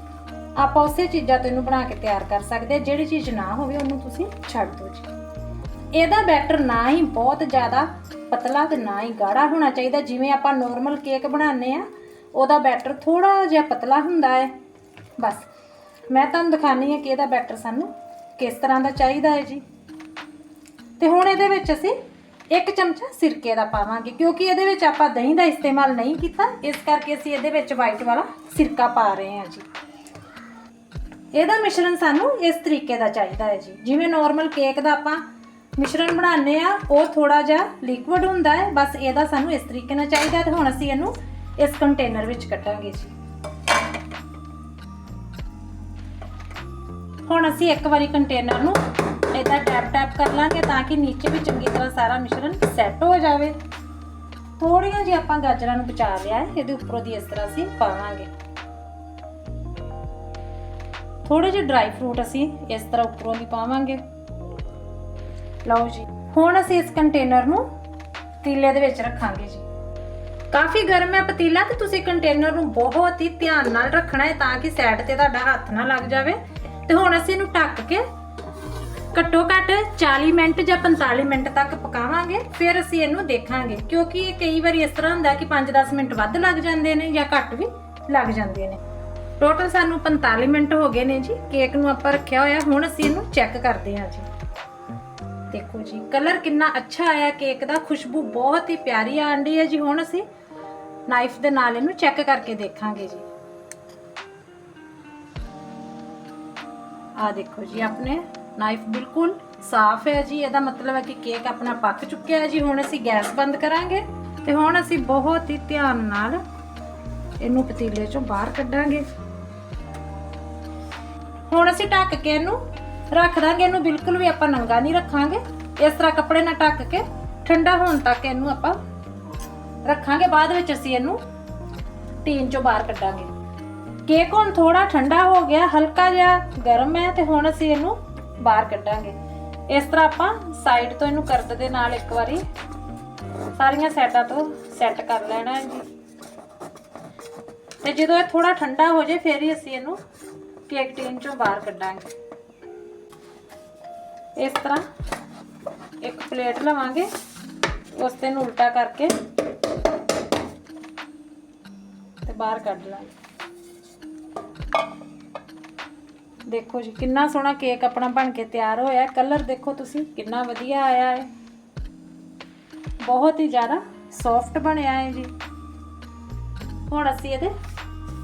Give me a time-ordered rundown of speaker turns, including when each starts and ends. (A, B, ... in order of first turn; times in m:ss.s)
0:00.6-0:05.1 A
0:05.9-0:14.5 A
0:15.2-0:15.5 A
0:16.1-0:19.6 A
0:21.0-0:22.0 A
0:22.5-0:29.6 A
0:31.3-0:35.2 A
0:35.8-0:43.1 A
0:47.2-0:53.6 A
0:54.6-0:58.3 A
1:01.2-1:04.0 A
1:05.6-1:07.7 A
1:08.4-1:09.6 A
1:10.5-1:18.0 A
1:19.1-1:28.8 A
1:29.4-1:34.3 A
1:35.5-1:40.2 A
1:41.1-1:43.2 A
1:47.2-1:56.4 A
1:57.4-1:59.0 A
2:01.5-2:02.6 A
2:03.1-2:08.8 A
2:09.8-2:11.2 A
2:12.2-2:13.3 A
2:14.0-2:19.1 A
2:19.7-2:22.4 A
2:23.6-2:25.8 A
2:27.8-2:30.0 A
2:30.7-2:32.1 A
2:34.4-2:34.8 A
2:36.0-2:37.1 A
2:38.0-2:39.1 A
2:42.2-2:43.1 A
2:46.5-2:51.3 A
2:53.0-2:55.3 A
2:56.9-2:57.5 A